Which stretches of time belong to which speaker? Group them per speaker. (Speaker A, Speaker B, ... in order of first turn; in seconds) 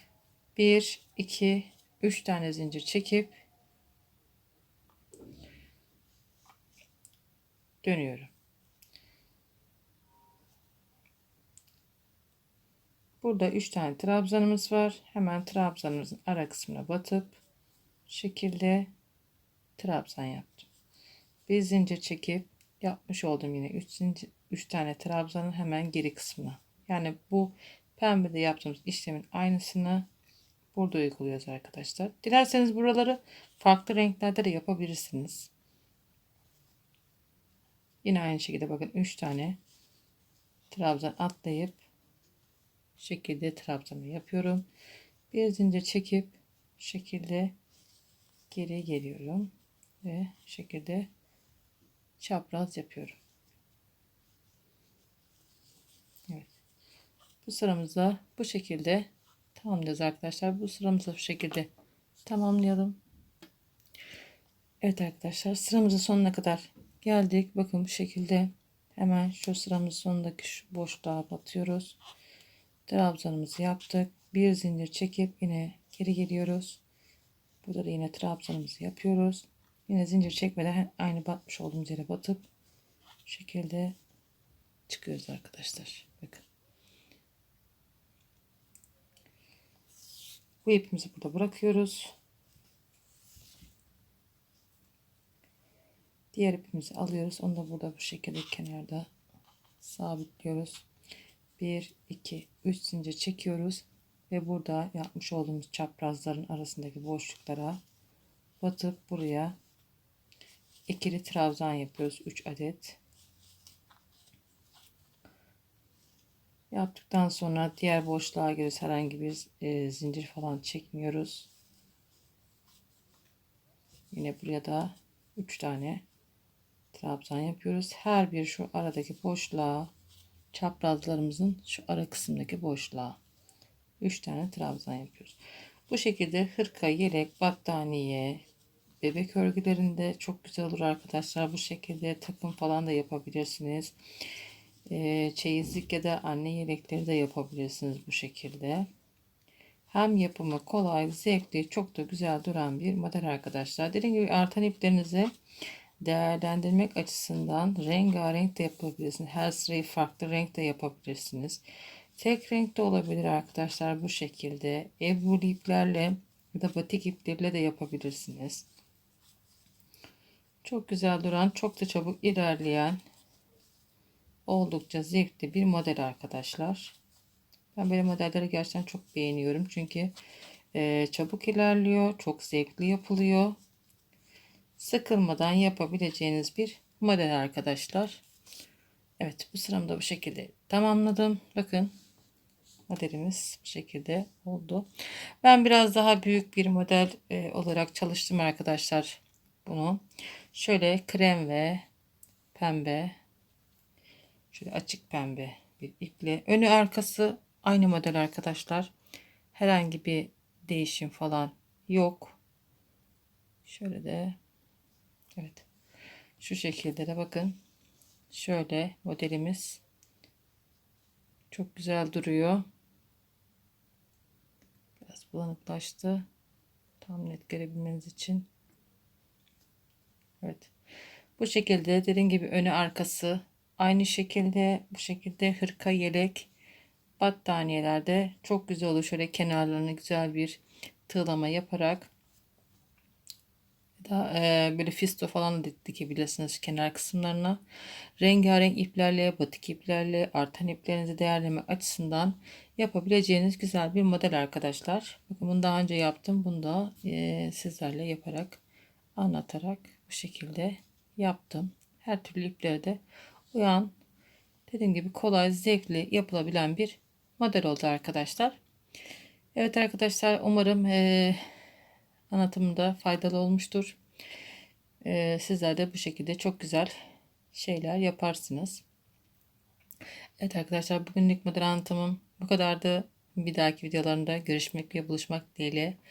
Speaker A: 0.6-3.4, 7.8-8.3, 13.2-17.4, 18.1-18.9, 19.8-20.7, 21.5-30.1, 30.7-35.5, 38.0-39.6, 40.7-41.8, 43.0-44.6, 45.3-47.6, 48.5-49.5, 50.0-51.1, 52.2-53.2, 56.3-56.5, 57.4-61.7, 62.2-63.0, 64.8-72.0, 72.9-76.8, 77.6-82.5, 83.2-84.0, 84.9-86.5, 90.6-92.1, 96.3-99.1, 99.8-100.9, 101.6-107.8, 108.6-109.6, 110.9-113.0, 116.7-121.5, 124.1-126.0, 126.9-129.9, 130.5-133.2, 134.0-138.4, 139.0-144.0, 144.9-148.9, 149.9-155.3, 156.0-161.6, 162.2-168.7, 170.6-173.0, 174.5-177.0, 177.8-180.1, 180.7-183.6, 184.8-188.2, 189.2-191.9, 192.9-194.9, 195.4-201.8, 202.5-203.2, 204.5-208.9, 209.5-212.4, 213.7-214.4, 215.4-215.7, 216.4-217.6, 218.3-219.8, 221.5-222.7, 225.0-226.3, 227.0-228.5, 230.4-230.7, 231.4-236.5, 237.2-242.1, 244.0-247.6, 248.2-258.6, 259.2-263.0, 263.5-263.9, 264.7-268.6, 269.6-271.4, 272.3-274.0, 275.0-276.9, 277.5-278.8, 280.4-286.0